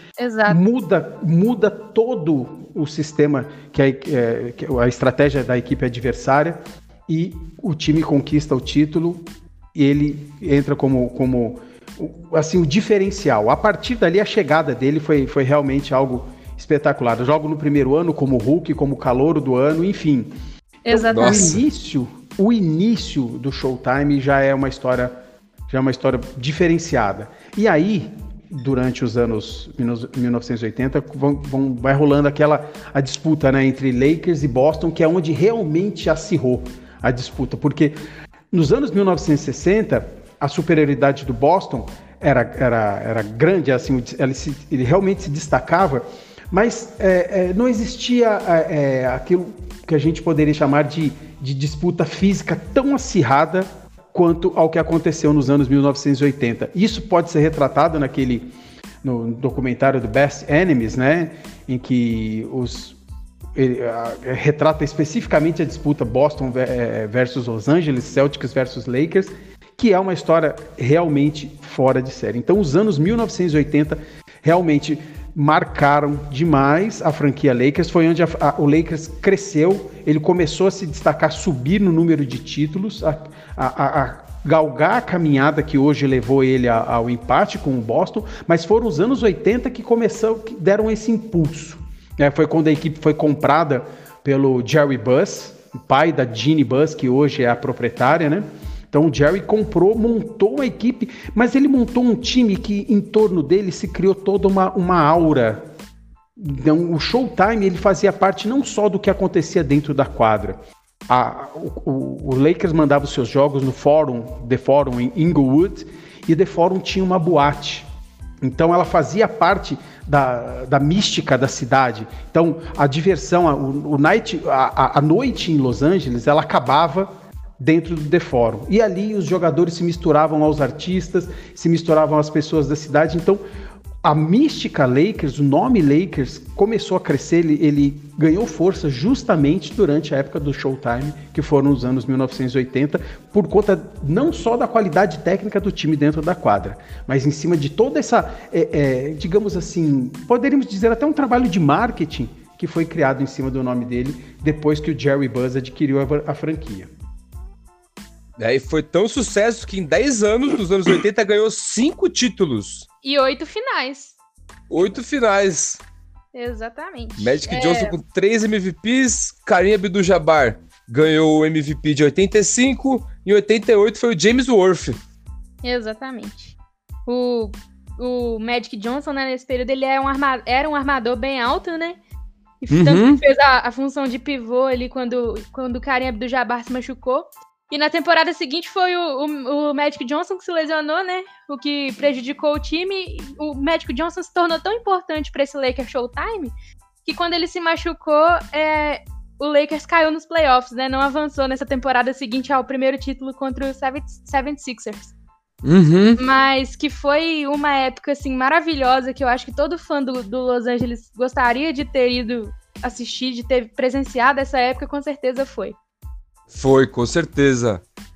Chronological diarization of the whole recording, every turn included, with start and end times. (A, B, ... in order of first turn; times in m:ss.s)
0:00.2-0:00.6 A
0:00.5-0:20.3 B
0:20.8-0:21.6 A
0:20.9-0:25.2 B
0:21.1-0:21.6 C
0:25.7-0:38.0 B
0:38.5-0:58.5 B
0:59.0-1:03.0 B
1:03.5-1:45.6 B
1:46.4-1:57.8 B
1:58.4-2:13.4 B
2:14.0-2:36.9 B
2:38.4-2:42.8 C
2:43.0-2:44.2 A
2:44.7-2:45.8 C
2:46.3-2:48.0 A
2:47.2-2:55.0 C
2:55.6-2:56.6 A
2:57.1-3:02.0 A
3:02.6-3:16.5 A
3:02.7-3:03.2 C
3:17.0-3:25.1 A
3:25.6-3:26.2 C
3:26.2-3:35.8 A
3:36.5-3:37.8 C